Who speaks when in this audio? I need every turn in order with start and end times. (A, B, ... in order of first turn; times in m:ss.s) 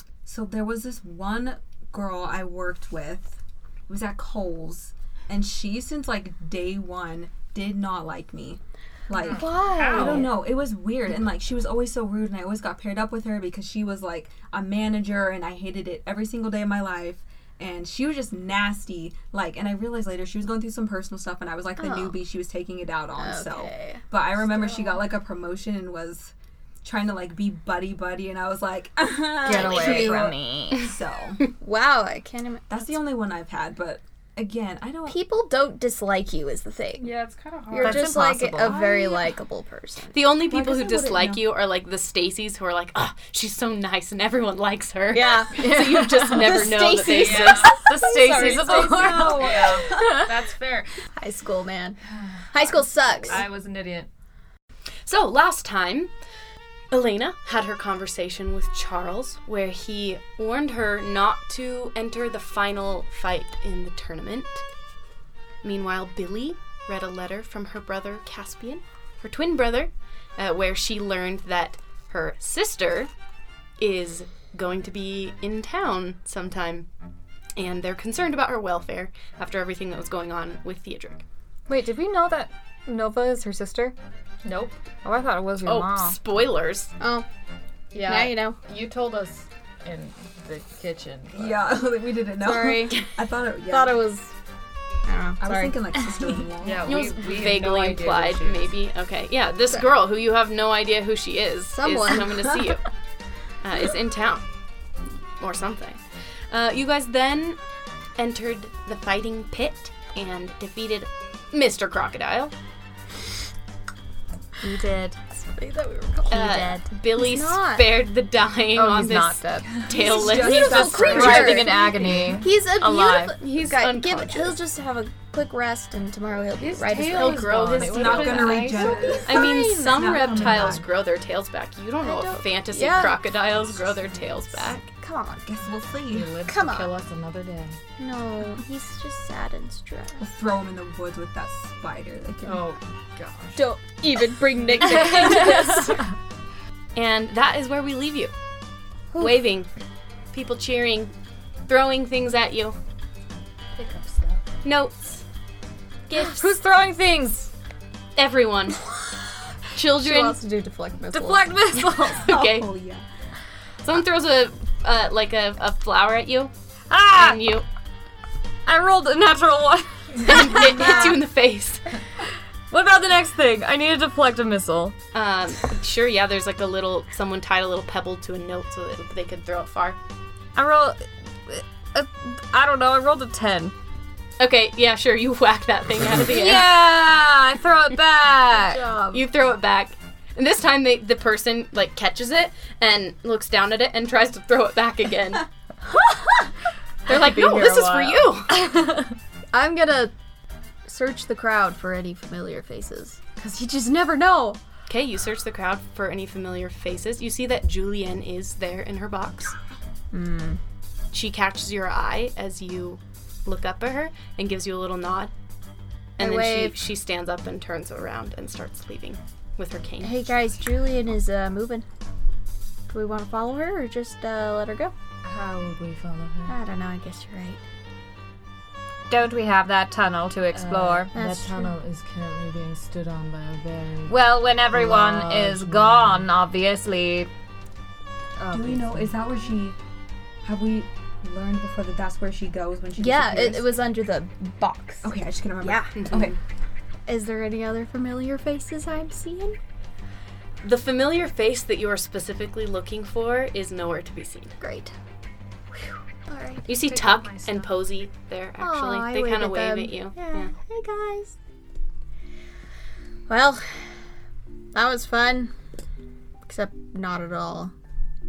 0:00.2-0:31.4 A
0:09.2-0:10.3 B
0:09.3-0:10.3 C
0:21.8-0:22.2 C
0:23.2-0:25.0 C
0:29.4-0:30.9 D
0:29.5-0:30.2 C
0:31.6-0:33.0 C
0:32.7-0:35.2 A
0:35.0-0:37.2 C
0:37.0-0:38.2 B
0:37.7-0:40.2 C
0:37.8-0:38.8 D
0:38.6-0:39.3 A
0:40.1-0:47.8 E
0:40.4-0:41.5 A
0:45.1-0:45.6 C
0:45.6-0:46.6 D
0:46.3-0:50.1 C
0:47.0-0:51.0 B
0:47.8-0:50.0 D
0:48.2-0:50.2 A
0:51.1-0:52.0 C
0:52.0-0:54.1 B
0:52.5-0:53.5 C
0:55.0-0:56.1 E
0:56.9-1:04.6 E
1:05.6-1:13.1 E
1:13.8-1:16.9 E
1:17.6-1:21.2 E
1:21.7-1:23.9 D
1:24.4-1:24.8 B
1:25.0-1:26.2 D
1:25.6-1:26.9 E
1:27.0-1:27.2 C
1:27.9-1:31.6 B
1:27.9-1:28.6 C
1:31.3-1:34.0 A
1:32.4-1:33.1 C
1:33.7-1:34.3 C
1:35.0-1:35.8 C
1:35.4-1:37.1 A
1:36.6-1:38.7 B
1:36.8-1:42.8 E
1:41.8-1:42.4 C
1:43.6-1:44.4 E
1:45.4-1:47.6 E
1:48.2-1:52.5 E
1:54.6-1:55.2 D
1:55.3-1:58.0 C
1:56.3-2:01.5 E
1:56.3-1:56.8 D
1:58.7-1:59.7 D
1:59.8-2:01.7 A
2:00.0-2:01.8 C
2:00.4-2:03.4 D
2:01.2-2:02.4 B
2:02.4-2:07.8 C
2:03.4-2:04.6 E
2:06.6-2:09.4 B
2:07.1-2:14.9 E
2:07.8-2:10.8 A
2:08.6-2:10.3 C
2:10.4-2:10.7 B
2:12.0-2:13.2 C
2:14.8-2:15.5 C
2:15.4-2:16.4 A
2:16.1-2:17.8 B
2:16.4-2:17.0 C
2:18.0-2:20.2 C
2:20.2-2:22.7 A
2:22.4-2:23.6 B
2:23.6-2:26.1 C
2:24.8-2:25.2 B
2:26.9-2:28.3 E
2:29.1-2:29.4 C
2:29.2-2:29.7 E
2:30.3-2:31.1 E
2:31.7-2:32.8 E
2:33.8-2:34.4 B
2:34.6-2:35.2 E
2:36.1-2:36.5 E
2:36.2-2:37.5 D
2:38.2-2:38.8 E
2:39.7-2:40.4 E
2:39.8-2:41.6 C
2:41.1-2:42.3 D
2:42.0-2:42.7 E
2:42.2-2:43.0 A
2:43.8-2:46.5 E
2:46.9-2:47.4 D
2:47.1-2:47.6 E
2:48.6-2:51.0 D
2:50.2-2:51.8 E
2:50.6-2:51.1 C
2:52.7-2:55.0 D
2:55.1-3:00.0 E
3:00.5-3:03.7 D
3:04.4-3:06.7 E
3:06.3-3:08.8 D
3:08.5-3:09.2 C
3:09.1-3:15.4 E
3:17.1-3:18.6 E
3:17.1-3:19.1 D
3:19.5-3:20.1 C
3:20.8-3:24.6 C
3:24.9-3:29.5 E
3:30.1-3:30.6 C
3:31.1-3:35.3 E
3:36.2-3:40.2 E
3:36.2-3:36.8 C
3:40.0-3:41.8 C
3:42.9-3:44.9 C
3:45.2-3:46.5 B
3:46.5-3:47.6 C
3:49.1-3:51.1 D
3:50.5-3:54.1 B
3:51.1-3:51.7 C
3:54.1-3:57.3 D
3:54.7-3:56.3 B
3:58.4-3:59.0 D
3:58.5-3:59.8 A
4:00.4-4:03.7 A
4:03.0-4:05.1 C
4:05.0-4:06.4 A
4:05.6-4:06.1 C
4:05.9-4:06.3 E
4:07.1-4:09.6 C
4:10.6-4:14.6 E
4:14.6-4:14.9 C
4:16.2-4:16.7 C
4:16.6-4:20.5 E
4:16.8-4:17.7 B
4:18.6-4:21.3 C
4:23.3-4:23.9 C
4:24.7-4:25.5 C
4:26.4-4:27.7 C